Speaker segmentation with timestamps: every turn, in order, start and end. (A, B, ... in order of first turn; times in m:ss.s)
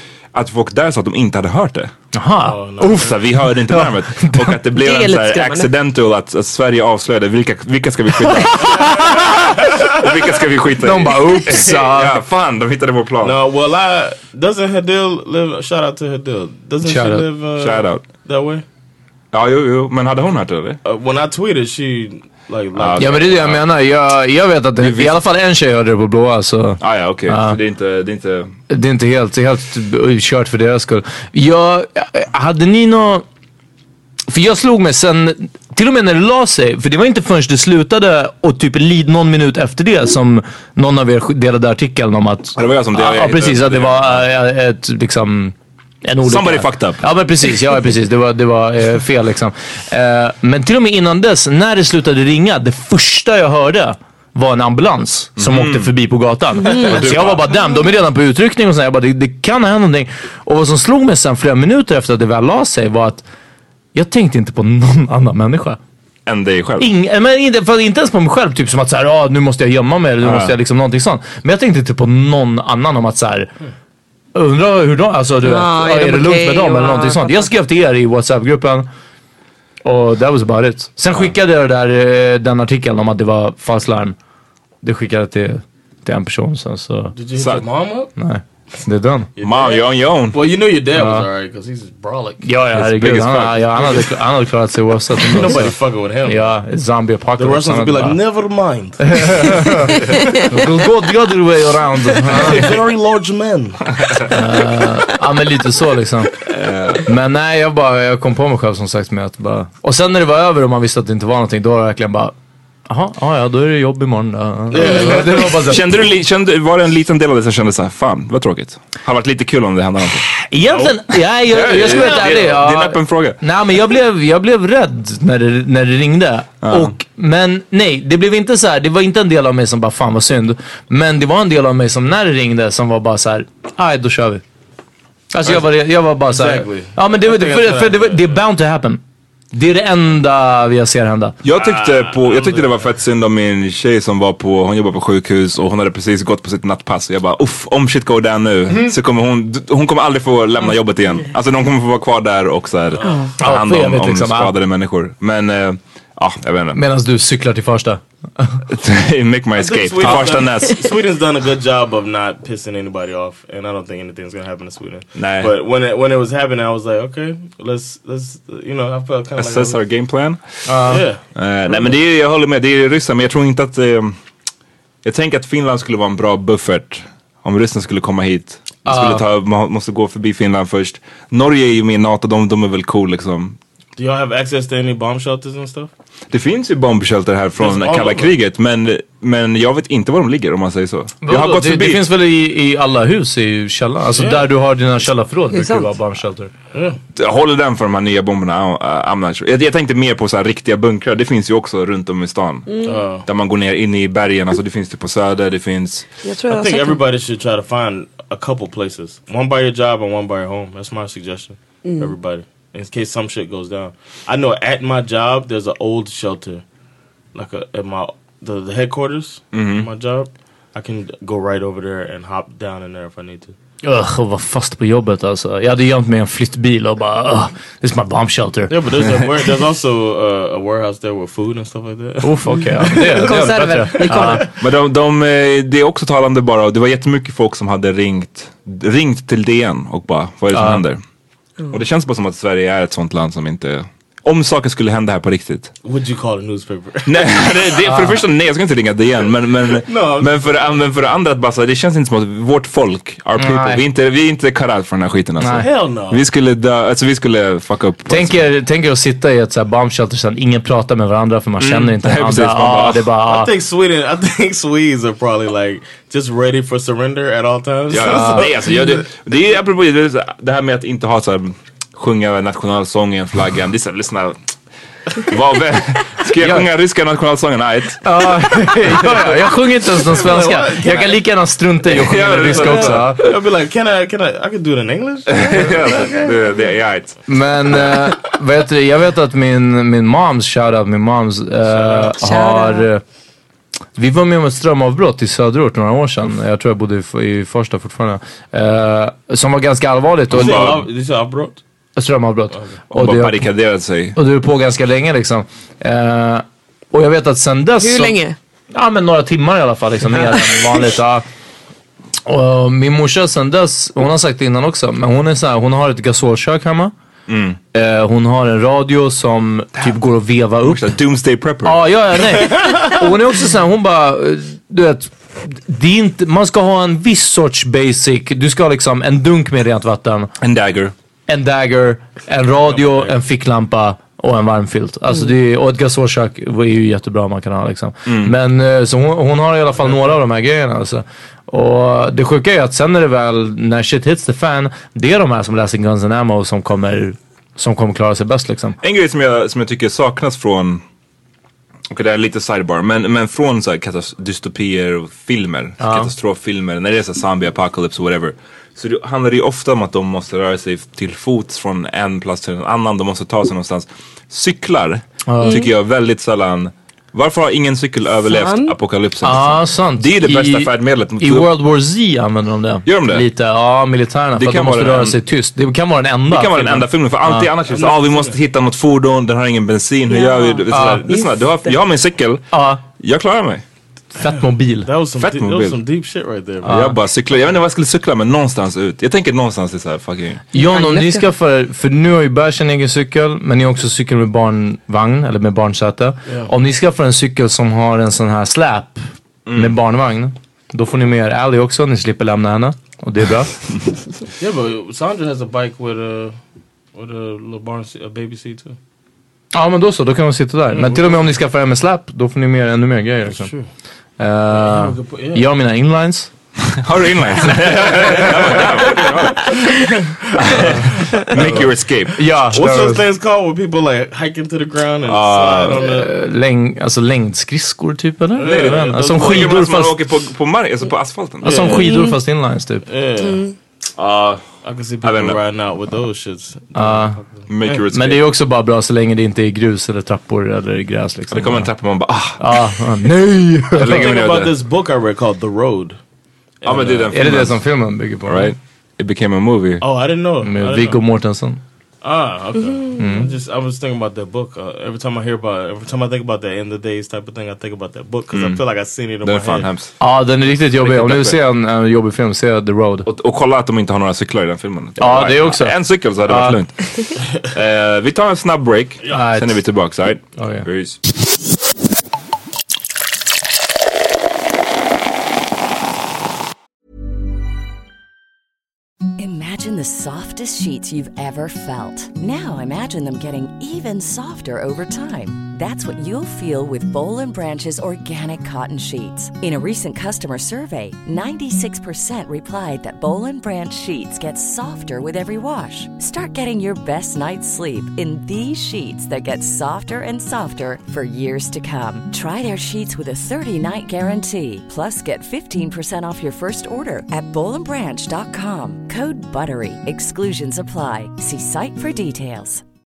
0:00.3-0:01.9 A
0:02.1-0:04.5 B
0:02.4-0:03.2 C
0:03.0-0:13.4 A
0:04.8-0:05.7 D
0:08.6-0:09.6 B
0:10.8-0:12.2 B
0:13.2-0:18.6 C
0:16.8-0:17.3 B
0:17.6-0:18.0 A
0:19.3-0:20.8 A
0:20.8-0:23.3 C
0:22.8-0:23.6 A
0:23.0-0:27.6 B
0:24.8-0:25.2 A
0:26.8-0:28.6 A
0:28.7-0:33.2 B
0:34.3-1:03.2 B
0:42.6-0:44.3 A
0:46.2-0:47.0 A
0:55.4-0:55.9 A
0:56.7-0:57.5 A
1:03.9-1:05.8 B
1:06.3-1:06.9 A
1:06.8-1:13.5 B
1:10.2-1:10.5 A
1:14.4-1:18.9 B
1:15.4-1:17.5 D
1:19.8-1:24.2 B
1:24.8-1:27.2 B
1:27.1-1:28.1 C
1:27.4-1:27.7 A
1:28.2-1:29.3 B
1:29.4-1:32.5 C
1:29.4-1:30.4 A
1:31.0-1:31.3 B
1:32.4-1:38.2 B
1:32.8-1:33.8 A
1:35.1-1:36.5 C
1:37.4-1:39.8 C
1:39.1-1:42.7 B
1:42.3-1:43.9 C
1:44.3-1:46.3 B
1:46.5-1:47.0 A
1:47.0-1:52.4 B
1:52.9-1:55.8 B
1:54.7-1:55.7 C
1:55.6-2:00.3 A
2:00.5-2:14.4 B
2:00.7-2:01.0 C
2:01.5-2:03.4 A
2:01.6-2:02.5 C
2:06.6-2:07.0 A
2:15.3-2:19.0 B
2:15.4-2:18.4 C
2:19.5-2:21.4 B
2:21.4-2:36.8 A
2:21.5-2:22.9 C
2:33.0-2:33.3 C
2:33.0-2:33.3 D
2:33.4-2:34.5 B
2:36.7-2:38.6 B
2:38.7-2:40.9 A
2:39.5-2:49.8 C
2:45.2-2:45.5 A
2:49.4-2:50.4 A
2:50.7-2:51.0 B
2:50.9-2:51.2 C
2:51.4-2:54.2 A
2:55.0-3:03.6 A
2:58.8-2:59.2 B
3:04.0-3:05.9 C
3:06.3-3:12.1 A
3:07.6-3:08.3 C
3:11.2-3:16.5 B
3:14.1-3:14.5 C
3:15.5-3:15.9 D
3:16.7-3:17.0 C
3:17.2-3:26.1 A
3:22.7-3:23.0 D
3:22.8-3:23.2 C
3:26.2-3:27.0 D
3:26.5-3:36.6 C
3:31.8-3:32.2 D
3:37.4-3:43.6 C
3:39.5-3:39.9 A
3:43.8-3:48.7 B
3:48.7-3:54.5 C
3:52.2-3:54.5 B
3:53.1-3:54.5 D
3:54.6-4:01.0 A
4:00.5-4:00.8 B
4:01.7-4:05.7 A
4:05.8-4:07.5 C
4:07.1-4:18.5 A
4:07.9-4:08.2 B
4:09.8-4:10.8 C
4:13.4-4:13.8 B
4:15.4-4:15.7 B
4:15.6-4:16.2 C
4:18.1-4:23.5 B
4:21.6-4:23.1 A
4:23.2-4:28.9 C
4:27.9-4:34.4 A
4:28.0-4:28.4 B
4:35.2-4:38.0 A
4:36.4-4:36.7 B
4:38.0-4:43.2 B
4:38.9-4:41.2 C
4:41.9-4:43.3 A
4:42.5-4:46.3 C
4:45.3-4:47.2 A
4:47.3-4:53.0 B
4:51.7-4:52.1 C
4:52.2-4:52.9 D
4:54.0-5:00.8 B
5:00.3-5:01.6 C
5:00.3-5:00.8 A
5:02.0-5:03.5 B
5:02.9-5:04.2 A
5:04.2-5:08.2 B
5:07.8-5:08.4 D
5:08.7-5:11.2 B
5:12.3-5:16.9 B
5:17.3-5:17.6 A
5:17.7-5:20.9 B
5:20.6-5:21.9 A
5:21.6-5:30.3 B
5:22.5-5:23.0 C
5:30.4-5:30.9 A
5:31.3-5:48.8 B
5:38.1-5:38.4 A
5:48.8-5:50.8 A
5:51.9-6:11.5 A
5:55.8-5:56.1 B
6:05.3-6:05.7 B
6:05.4-6:05.7 D
6:08.2-6:08.7 D
6:09.2-6:17.5 B
6:12.9-6:13.2 A
6:14.4-6:15.2 A
6:16.3-6:23.6 A
6:17.6-6:18.4 C
6:20.1-6:21.7 D
6:20.7-6:21.1 B
6:22.5-6:22.8 B
6:24.2-6:24.9 B
6:24.8-6:26.9 C
6:25.2-6:25.8 A
6:26.6-6:27.0 B
6:26.6-6:30.4 A
6:30.5-6:39.0 B
6:30.6-6:31.2 D
6:36.3-6:36.5 C
6:39.5-6:39.8 A
6:39.6-6:43.6 B
6:44.4-6:46.4 C
6:46.9-6:48.8 C
6:49.5-6:53.5 B
6:50.7-6:51.3 C
6:53.3-6:53.7 C
6:54.2-6:56.3 B
6:54.5-6:55.5 C
6:56.7-6:59.7 A
6:57.9-6:58.7 B
6:58.0-6:58.7 C
7:00.0-7:00.7 C
7:00.3-7:02.3 A
7:00.5-7:00.8 B
7:01.4-7:01.7 C
7:01.4-7:03.0 B
7:02.4-7:06.1 C
7:05.1-7:05.8 A
7:05.7-7:10.0 B
7:08.4-7:09.6 C
7:08.4-7:11.8 A
7:11.4-7:12.8 B
7:11.4-7:12.1 C
7:12.9-7:13.5 C
7:13.2-7:13.5 D
7:14.0-7:14.4 A
7:14.6-7:17.8 C
7:15.0-7:15.4 A
7:16.8-7:17.2 B
7:17.5-7:18.3 A
7:17.9-7:21.7 B
7:21.3-7:22.6 A
7:22.4-7:24.0 B
7:23.8-7:24.6 A
7:23.8-7:26.0 C
7:26.6-7:27.2 C
7:26.6-7:27.6 A
7:27.1-7:28.5 B
7:28.3-7:29.8 A
7:29.8-7:31.0 C
7:30.4-7:31.6 B
7:32.0-7:39.7 C
7:33.0-7:33.3 B
7:38.3-7:38.6 A
7:39.2-7:39.9 A
7:40.0-7:43.1 B
7:40.8-7:41.4 A
7:43.1-7:51.0 A
7:45.0-7:46.6 B
7:49.1-7:49.6 B
7:50.4-7:50.6 B
7:59.2-8:32.6 E